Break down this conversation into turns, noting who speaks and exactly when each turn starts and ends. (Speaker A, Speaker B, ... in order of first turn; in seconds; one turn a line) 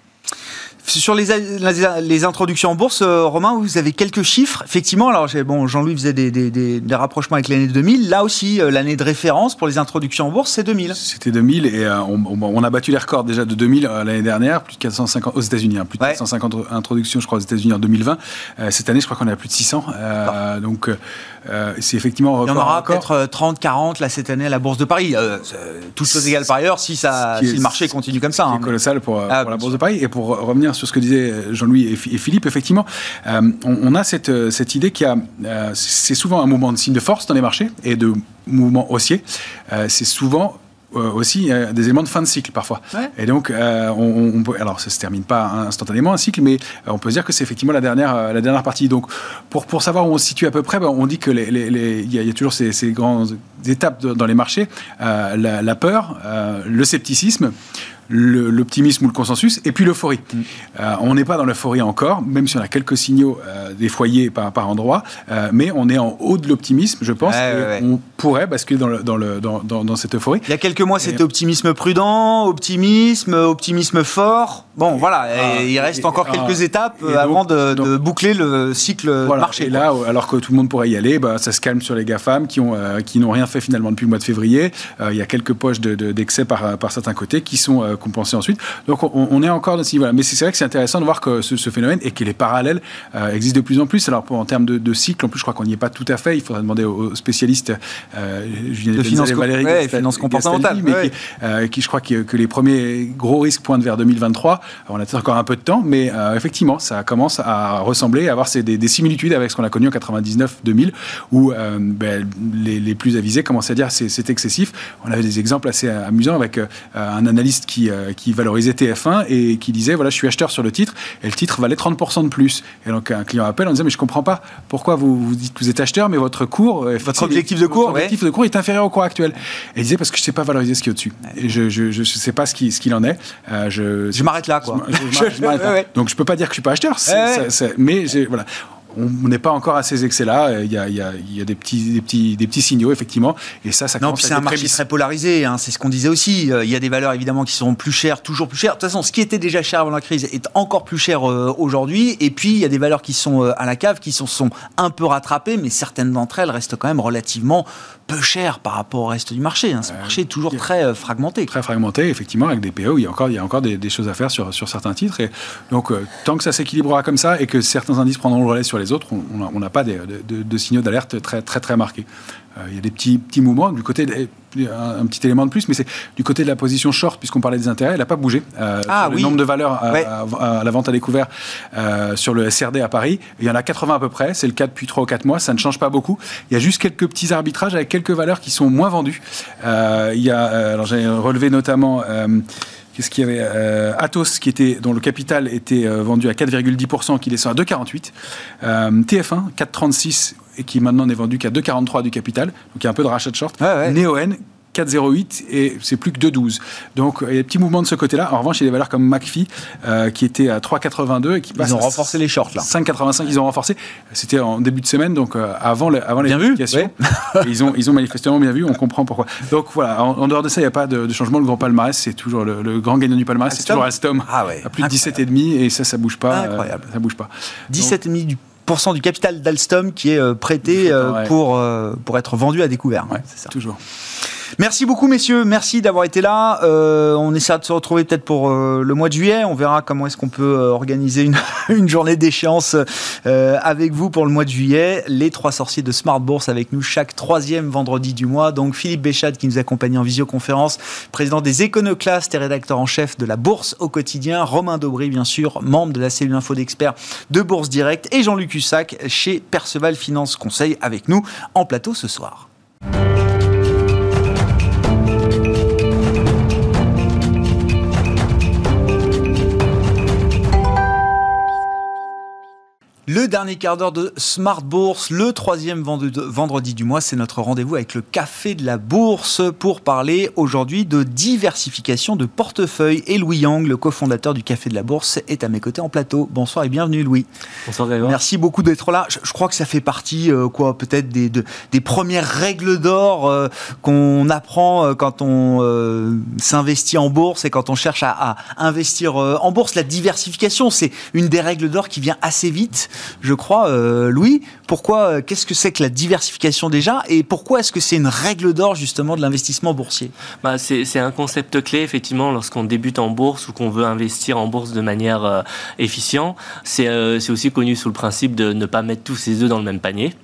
Speaker A: 0.8-11.0
Speaker B: 10.9-23.1
Speaker A: 22.4-28.7
Speaker B: 27.3-57.5
Speaker A: 29.3-29.7
Speaker B: 58.1-70.5
Speaker A: 67.2-67.8
Speaker A: 70.5-79.8
Speaker B: 75.2-77.9
Speaker B: 79.2-144.8
Speaker A: 99.0-101.1
Speaker A: 127.0-128.2
Speaker A: 134.1-135.9
Speaker A: 137.1-137.5
Speaker A: 144.0-161.5
Speaker B: 159.9-160.6
Speaker B: 161.5-228.0
Speaker A: 178.9-179.4
Speaker A: 203.6-204.0
Speaker A: 211.6-212.7
Speaker A: 216.2-217.5
Speaker A: 223.5-225.2
Speaker A: 226.3-226.9
Speaker A: 227.7-233.5
Speaker B: 230.8-231.3
Speaker B: 233.1-233.8
Speaker A: 234.6-262.5
Speaker A: 273.1-287.3
Speaker C: 287.7-288.2
Speaker A: 288.0-310.1
Speaker C: 310.4-320.2